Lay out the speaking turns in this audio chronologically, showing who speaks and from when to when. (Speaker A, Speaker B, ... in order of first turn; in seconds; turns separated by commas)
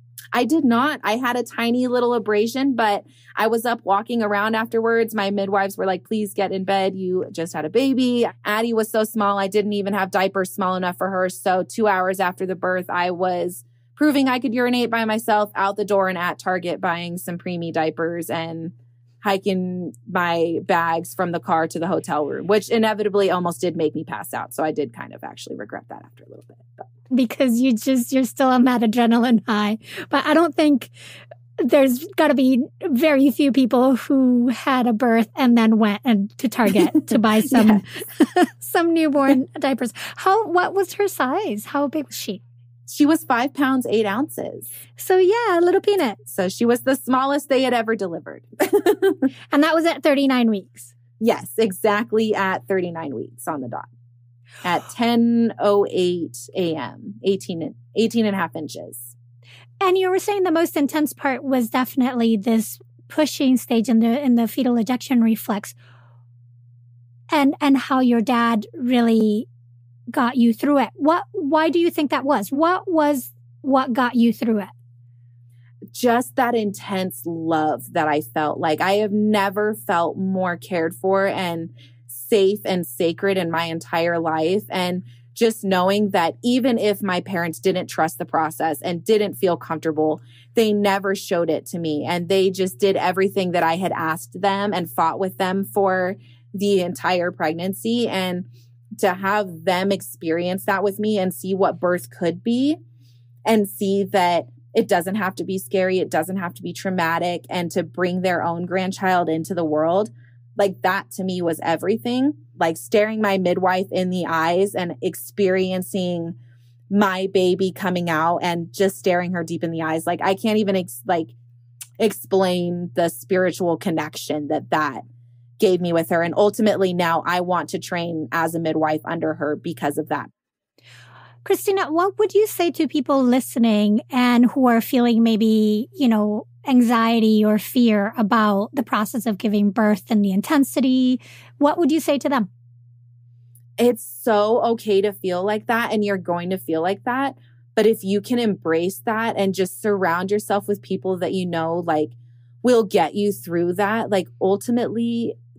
Speaker A: 0.3-26.8, Speaker B: 27.1-30.9, Speaker B: 31.6-42.4, Speaker A: 36.9-38.0, Speaker A: 42.9-44.7, Speaker B: 45.0-46.2, Speaker A: 46.2-49.3, Speaker B: 49.5-50.9, Speaker A: 51.2-53.9, Speaker A: 54.6-59.1, Speaker B: 59.8-65.8, Speaker B: 67.3-69.5, Speaker B: 70.1-74.7, Speaker A: 75.9-98.4, Speaker A: 99.0-102.8, Speaker A: 103.5-116.3, Speaker A: 116.9-121.3, Speaker A: 122.0-125.0, Speaker A: 125.6-130.3, Speaker B: 131.4-142.5, Speaker A: 143.8-155.4